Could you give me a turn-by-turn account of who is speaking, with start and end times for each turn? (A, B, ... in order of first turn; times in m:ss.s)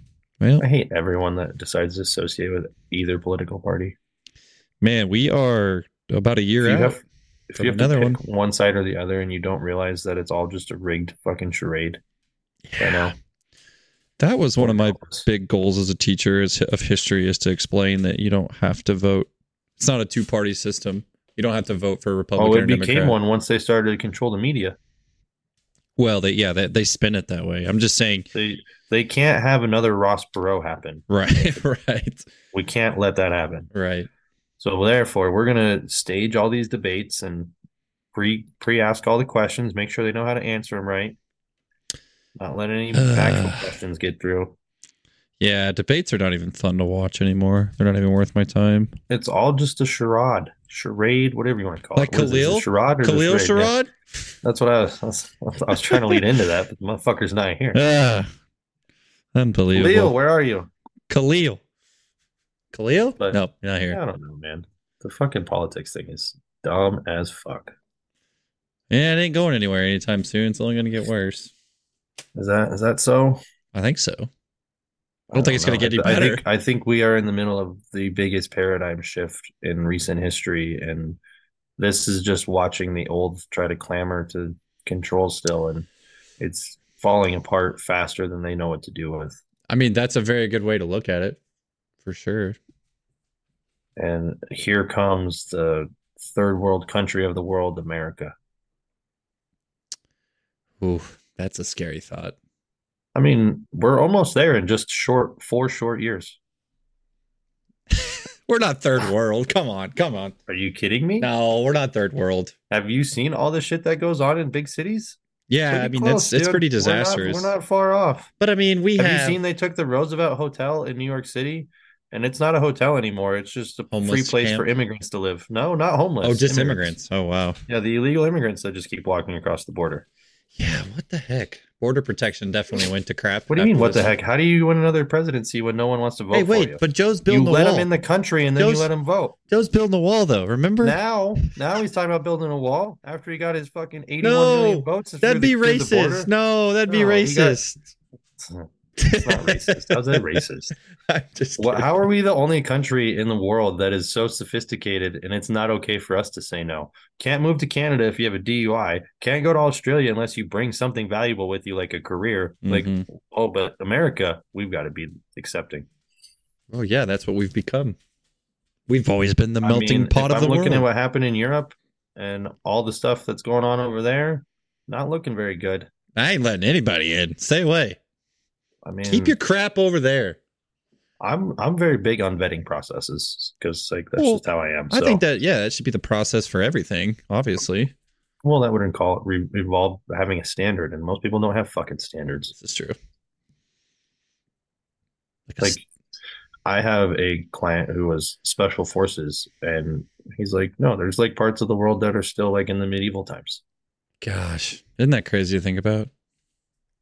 0:00.4-0:00.6 A
0:00.6-0:04.0 B
0:04.8-0:07.0 A
0:06.6-0:12.0 B
0:07.6-0:08.2 A
0:12.7-0:13.1 A
0:12.8-0:13.1 B
0:14.2-0:23.2 A
0:14.6-0:15.3 B
0:22.4-0:24.8 B
0:26.0-0:28.3 A
0:28.3-0:31.0 B
0:31.1-0:32.3 A
0:32.5-0:33.7 B
0:33.7-0:34.1 A
0:34.6-0:37.5 B
0:38.1-0:41.2 B
0:42.4-0:44.6 B
0:42.9-0:43.7 A
0:45.4-0:48.9 A
0:49.1-0:53.7 B
0:52.0-0:53.9 A
0:54.4-0:57.8 B
0:55.9-0:56.2 A
0:57.7-0:58.3 A
0:59.4-1:00.2 A
0:59.7-1:00.7 B
1:01.1-1:01.6 A
1:02.7-1:04.0 A
1:03.2-1:07.7 B
1:08.9-1:11.5 A
1:12.4-1:13.4 B
1:13.7-1:14.3 A
1:15.3-1:21.2 B
1:15.3-1:16.4 A
1:21.8-1:25.9 B
1:26.4-1:29.4 B
1:29.7-1:31.4 A
1:32.0-1:32.6 A
1:34.0-1:38.4 B
1:40.8-1:42.4 A
1:43.1-1:46.4 B
1:47.9-1:50.4 A
1:50.5-1:51.3 B
1:51.2-1:52.5 A
1:52.7-1:55.2 B
1:55.5-1:57.5 A
1:55.7-1:58.3 B
1:58.4-1:59.4 A
1:59.0-2:06.9 B
2:03.9-2:04.7 A
2:06.2-2:07.6 A
2:07.7-2:10.0 B
2:10.5-2:14.1 A
2:13.5-2:19.4 B
2:16.3-2:17.9 A
2:18.6-2:18.9 A
2:19.5-2:21.0 A
2:20.8-2:26.3 B
2:24.2-2:27.8 A
2:26.9-2:27.6 B
2:28.4-2:28.7 B
2:29.0-2:30.4 A
2:29.2-2:30.7 B
2:31.1-2:32.0 A
2:31.6-2:45.9 B
2:42.6-2:43.0 A
2:46.7-2:48.0 A
2:48.9-2:50.9 A
2:49.6-2:55.9 B
2:56.2-2:58.0 A
2:58.8-2:59.4 B
2:59.1-3:00.4 A
3:01.2-3:05.2 B
3:04.2-3:07.9 A
3:08.4-3:12.5 B
3:12.5-3:13.0 A
3:15.5-3:15.8 A
3:16.6-3:23.6 B
3:24.2-3:26.1 A